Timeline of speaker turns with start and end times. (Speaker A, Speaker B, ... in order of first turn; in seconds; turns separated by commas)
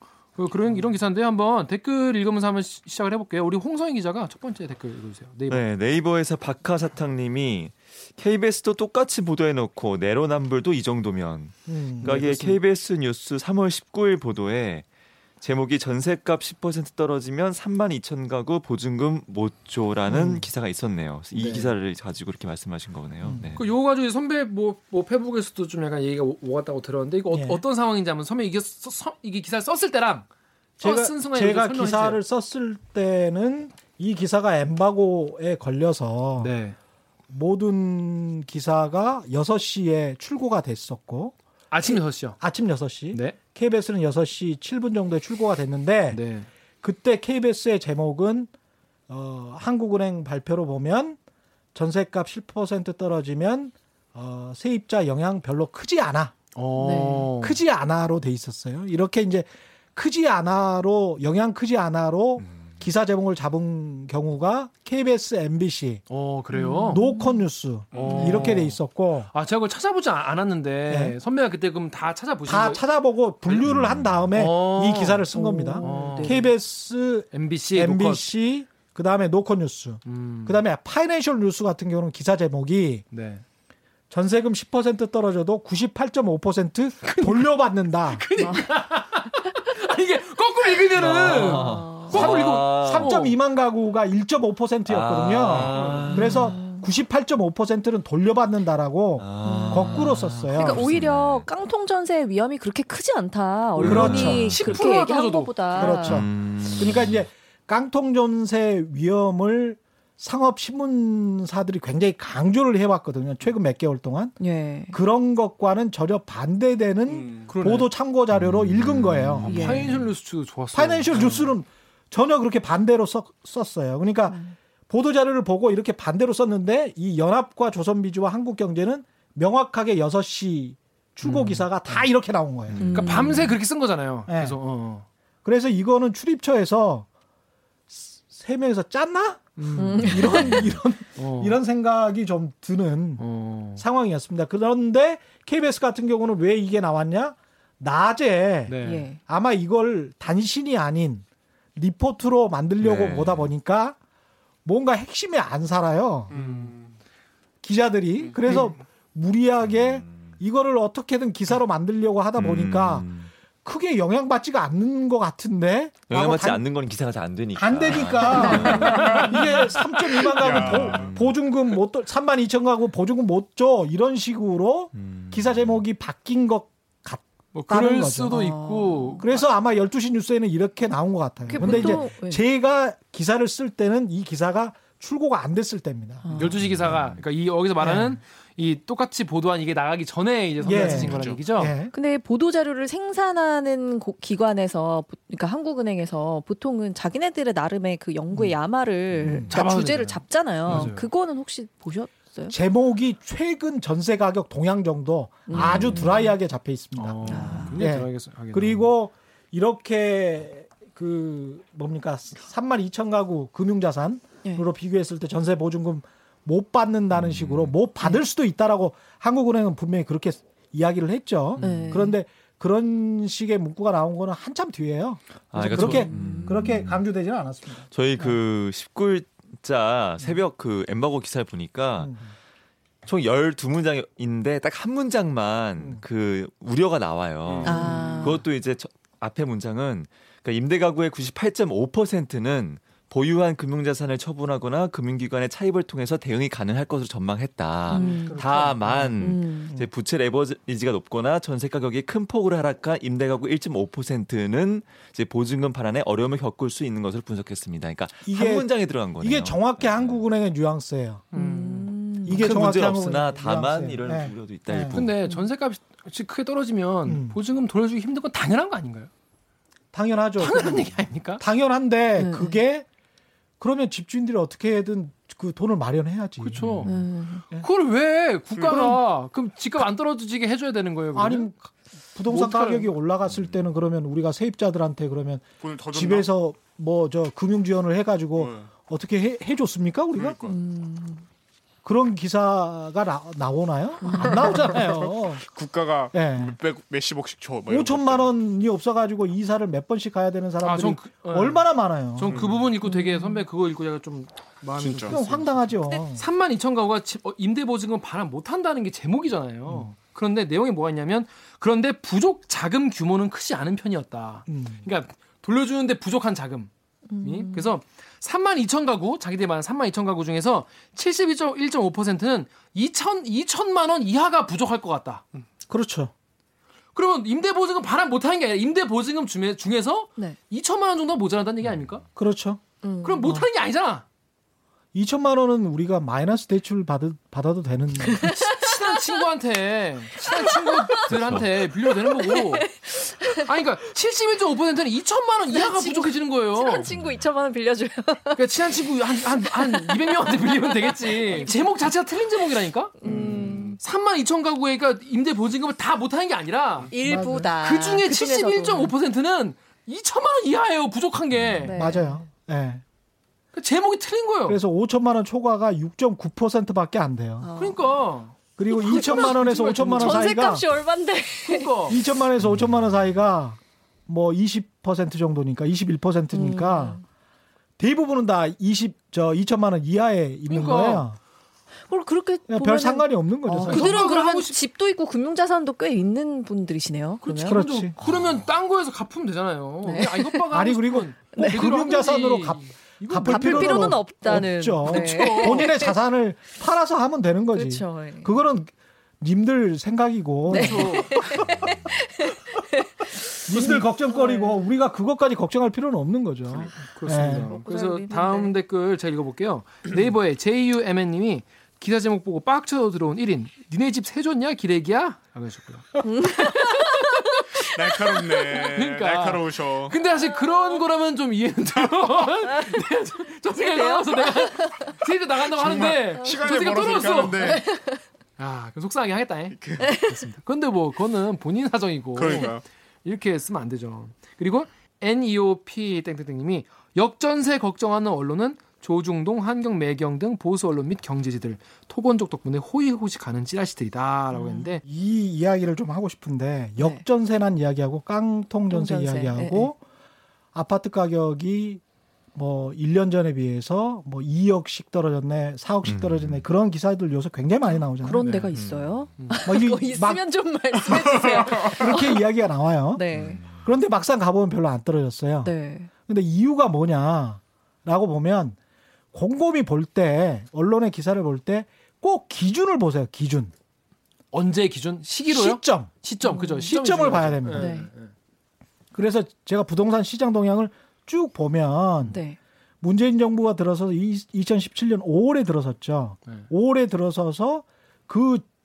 Speaker A: 0.3-5.6, Speaker B: 5.5-14.9, Speaker C: 11.7-12.6, Speaker A: 12.0-12.6, Speaker B: 15.4-23.6, Speaker C: 20.1-20.5, Speaker C: 21.4-21.7, Speaker C: 23.2-23.5, Speaker A: 23.6-30.3, Speaker C: 27.3-27.6, Speaker A: 30.8-32.2, Speaker C: 30.8-36.5, Speaker A: 36.4-36.8, Speaker C: 37.3-41.4, Speaker A: 41.7-42.4, Speaker C: 41.9-46.2, Speaker A: 46.1-46.5, Speaker C: 46.8-48.5, Speaker C: 49.1-51.2, Speaker C: 51.7-56.4, Speaker A: 56.5-57.6, Speaker D: 56.8-57.3, Speaker C: 57.4-66.0, Speaker A: 66.1-67.0, Speaker D: 66.5-67.4, Speaker C: 66.9-69.3, Speaker E: 67.9-68.5, Speaker A: 68.0-68.8, Speaker D: 68.1-68.4, Speaker A: 69.3-72.8, Speaker C: 70.9-71.2, Speaker C: 72.5-83.0, Speaker B: 73.7-74.2, Speaker A: 74.3-76.5, Speaker D: 75.3-76.5, Speaker A: 77.3-78.3, Speaker A: 80.1-80.6, Speaker A: 83.1-83.4, Speaker C: 84.1-88.2, Speaker A: 87.0-87.5, Speaker A: 88.1-93.4, Speaker D: 88.4-88.7, Speaker B: 91.0-93.2, Speaker D: 91.5-92.1, Speaker C: 92.1-100.8, Speaker B: 94.9-96.6, Speaker A: 95.5-96.3, Speaker D: 96.0-96.8, Speaker B: 99.2-101.5, Speaker D: 99.4-106.3, Speaker C: 103.8-104.7, Speaker B: 103.8-104.8, Speaker A: 104.1-106.0, Speaker C: 105.8-114.4, Speaker B: 106.0-107.2, Speaker D: 114.4-115.0, Speaker C: 114.9-119.9, Speaker E: 117.2-117.5, Speaker A: 117.5-117.9, Speaker B: 118.4-119.5, Speaker A: 119.5-121.5, Speaker D: 119.5-120.0, Speaker C: 120.7-124.4, Speaker D: 124.3-124.5, Speaker C: 124.9-133.0, Speaker A: 131.2-132.1, Speaker B: 132.7-133.3, Speaker D: 132.8-133.5, Speaker A: 132.9-135.1, Speaker C: 134.3-134.6, Speaker C: 135.4-137.1, Speaker C: 137.9-143.2, Speaker A: 139.6-140.4, Speaker D: 139.8-140.7, Speaker A: 141.2-141.6, Speaker A: 143.2-143.8, Speaker C: 143.8-151.2, Speaker A: 148.7-149.1, Speaker D: 148.8-149.2, Speaker C: 151.8-154.0, Speaker B: 152.8-153.5, Speaker C: 154.7-156.3, Speaker E: 156.3-156.9, Speaker A: 156.3-156.7, Speaker C: 157.6-163.1, Speaker A: 158.4-158.7, Speaker B: 162.4-163.3, Speaker C: 163.6-166.6, Speaker B: 166.1-169.2, Speaker C: 167.6-178.4, Speaker D: 168.3-169.2, Speaker A: 168.5-169.3, Speaker E: 169.0-169.3, Speaker E: 170.4-171.1, Speaker B: 170.4-171.3, Speaker B: 175.0-175.7, Speaker A: 177.5-179.4, Speaker D: 178.3-179.2, Speaker C: 179.2-186.5, Speaker D: 181.5-182.4, Speaker A: 181.5-182.0, Speaker D: 186.2-186.6, Speaker A: 186.3-191.7, Speaker B: 186.6-187.2, Speaker C: 187.8-188.2, Speaker C: 190.7-191.9, Speaker D: 190.7-191.1, Speaker E: 191.1-191.4, Speaker D: 191.9-202.6, Speaker C: 199.2-199.5, Speaker A: 199.5-201.1, Speaker C: 202.5-228.4, Speaker D: 205.5-206.3, Speaker A: 205.5-206.2, Speaker A: 207.0-208.9, Speaker D: 207.3-207.8, Speaker B: 217.1-217.7, Speaker D: 221.6-222.2, Speaker B: 221.6-221.9, Speaker B: 225.5-227.0, Speaker D: 225.6-226.7, Speaker B: 227.9-232.2, Speaker B: 233.1-260.2, Speaker E: 237.5-237.9, Speaker D: 237.7-238.4, Speaker C: 237.7-238.2, Speaker A: 237.8-238.3, Speaker D: 247.9-248.5, Speaker C: 247.9-249.9, Speaker D: 249.2-249.7, Speaker C: 258.2-261.3, Speaker A: 261.3-261.9, Speaker D: 261.3-262.5, Speaker C: 262.2-265.0, Speaker B: 262.3-265.1, Speaker A: 264.9-269.1, Speaker C: 267.1-267.4, Speaker C: 269.9-272.9, Speaker A: 270.4-271.4, Speaker D: 272.2-272.6, Speaker C: 273.6-277.7, Speaker A: 276.4-276.9, Speaker D: 276.8-277.4, Speaker A: 277.5-281.5, Speaker E: 278.5-278.9, Speaker C: 278.7-279.0, Speaker C: 281.1-290.4, Speaker A: 282.3-282.9, Speaker E: 285.6-286.3, Speaker E: 288.4-288.7, Speaker E: 290.1-290.6, Speaker D: 290.5-291.3, Speaker C: 291.9-295.4, Speaker D: 294.0-294.6, Speaker E: 294.2-298.3, Speaker C: 296.1-296.6, Speaker C: 297.7-302.4, Speaker A: 300.6-316.7, Speaker E: 302.3-302.7, Speaker D: 302.8-303.4, Speaker E: 304.8-305.2, Speaker C: 305.1-306.2, Speaker C: 314.5-314.9, Speaker D: 317.1-317.7, Speaker A: 317.2-325.2, Speaker C: 325.7-326.1, Speaker A: 326.9-332.1, Speaker C: 332.2-332.6, Speaker D: 332.8-333.4, Speaker A: 333.0-334.0, Speaker C: 334.9-338.3, Speaker D: 338.1-339.1, Speaker A: 338.2-342.7, Speaker D: 340.6-340.9, Speaker B: 341.1-341.5, Speaker D: 342.0-343.5, Speaker A: 343.4-346.9, Speaker D: 345.5-348.7, Speaker A: 348.4-356.9, Speaker D: 349.2-351.5, Speaker D: 353.0-353.8, Speaker E: 353.0-353.8, Speaker D: 356.9-358.9, Speaker C: 356.9-357.5, Speaker A: 357.6-361.8, Speaker D: 361.6-362.2, Speaker C: 361.7-362.8, Speaker A: 363.5-364.6, Speaker C: 364.5-367.5, Speaker D: 367.4-368.0, Speaker A: 367.6-370.4, Speaker C: 368.6-370.6, Speaker D: 368.7-371.7, Speaker A: 371.4-372.0, Speaker C: 371.9-377.0, Speaker D: 376.3-377.0, Speaker C: 377.8-381.2, Speaker A: 380.5-381.1, Speaker D: 381.9-387.6, Speaker C: 382.5-384.0, Speaker A: 383.6-384.6, Speaker A: 387.2-394.0, Speaker C: 387.4-387.9, Speaker D: 389.8-390.4, Speaker C: 390.5-401.2, Speaker D: 391.4-391.6, Speaker D: 393.2-395.9, Speaker A: 394.8-395.7, Speaker D: 397.5-398.4, Speaker A: 400.5-401.4, Speaker D: 400.5-404.6, Speaker C: 403.5-407.5, Speaker A: 406.9-427.6, Speaker D: 407.2-408.5, Speaker D: 416.0-417.6, Speaker E: 417.7-420.0, Speaker D: 420.1-420.8, Speaker D: 423.5-425.0, Speaker E: 425.6-427.6, Speaker D: 425.7-426.4, Speaker D: 427.4-428.0, Speaker A: 428.4-444.8, Speaker E: 429.6-430.0, Speaker D: 429.8-430.2, Speaker E: 432.1-432.6, Speaker D: 444.3-444.7, Speaker C: 444.8-449.8, Speaker D: 446.8-447.0, Speaker D: 448.7-449.7, Speaker C: 450.5-451.8, Speaker C: 452.3-458.3, Speaker B: 455.9-456.5, Speaker D: 458.0-462.2, Speaker B: 458.5-459.1, Speaker C: 459.4-460.2, Speaker C: 460.9-465.5, Speaker D: 462.9-463.4, Speaker B: 463.1-463.6, Speaker D: 465.4-465.9, Speaker C: 466.1-468.6, Speaker C: 469.1-473.5, Speaker A: 474.3-478.1, Speaker C: 475.3-475.9, Speaker D: 476.2-476.7, Speaker C: 476.7-477.8, Speaker D: 477.5-477.9, Speaker C: 478.9-482.2, Speaker D: 482.1-482.4, Speaker C: 482.8-488.4